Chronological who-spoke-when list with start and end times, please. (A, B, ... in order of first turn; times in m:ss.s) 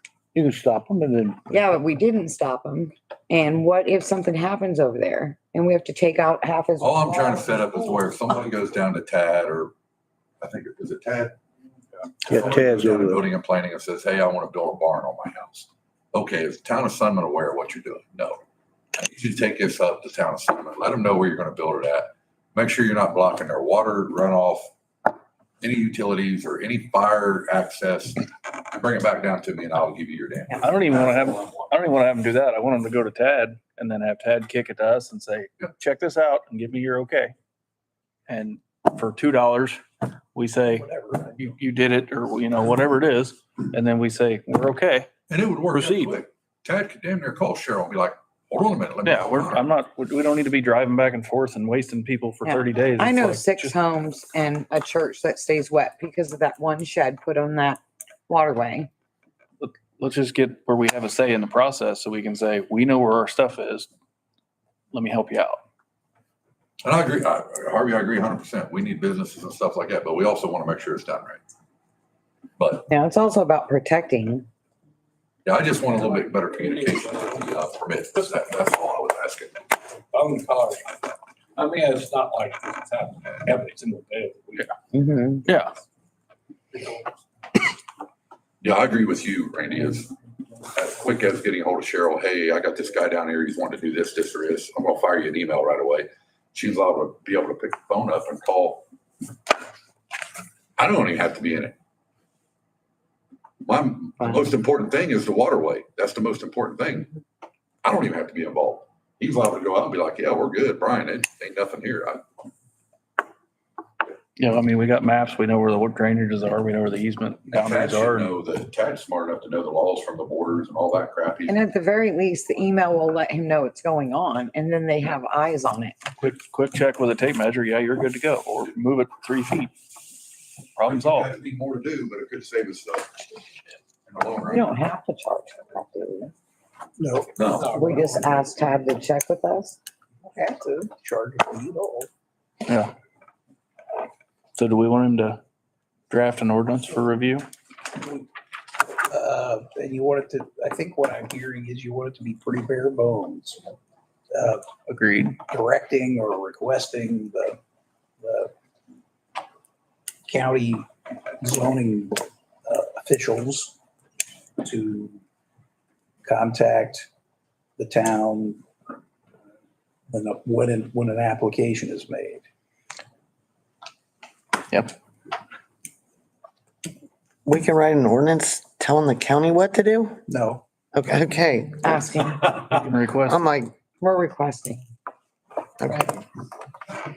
0:00.3-0:01.6 A
0:01.5-0:07.1 B
0:06.8-0:09.7 C
0:10.4-0:11.4 C
0:12.2-0:13.2 A
0:12.3-0:18.4 C
0:18.9-0:24.7 C
0:25.6-0:30.9 C
0:30.6-0:37.3 D
0:38.3-0:39.8 D
0:40.3-0:45.1 D
0:40.6-0:41.4 E
0:45.3-0:49.7 C
0:45.7-0:46.2 D
0:49.0-0:53.7 D
0:52.4-0:58.9 B
0:59.6-1:03.9 D
1:04.9-1:05.6 D
1:06.8-1:11.4 C
1:12.6-1:12.9 C
1:12.9-1:14.5 B
1:15.4-1:19.7 C
1:20.1-1:20.7 F
1:21.6-1:24.6 F
1:24.9-1:25.5 B
1:25.4-1:25.7 D
1:28.6-1:30.1 C
1:30.7-1:38.8 C
1:40.8-1:41.7 C
1:43.6-1:47.1 C
1:47.8-1:52.2 C
1:54.4-1:58.3 D
1:57.5-2:01.6 C
2:01.5-2:06.0 B
2:06.2-2:09.7 D
2:10.8-2:11.3 D
2:10.8-2:13.2 C
2:14.0-2:14.7 C
2:14.5-2:16.3 B
2:17.0-2:17.5 E
2:17.4-2:17.8 C
2:17.6-2:19.8 B
2:20.2-2:22.1 E
2:22.6-2:22.9 D
2:24.6-2:25.4 D
2:26.1-2:27.4 D
2:28.0-2:28.2 E
2:29.1-2:33.6 E
2:34.3-2:34.7 E
2:34.9-2:35.4 D
2:35.4-2:37.6 E
2:38.2-2:38.5 E
2:40.2-2:40.9 E
2:41.4-2:43.8 E
2:44.6-2:45.2 E
2:46.2-2:47.1 E
2:47.8-2:48.6 E
2:50.1-2:52.4 E
2:57.4-3:00.2 G
3:00.3-3:00.6 E
3:00.9-3:02.0 G
3:01.8-3:02.6 B
3:02.8-3:03.4 D
3:03.3-3:03.7 G
3:04.0-3:04.8 B
3:05.8-3:06.2 G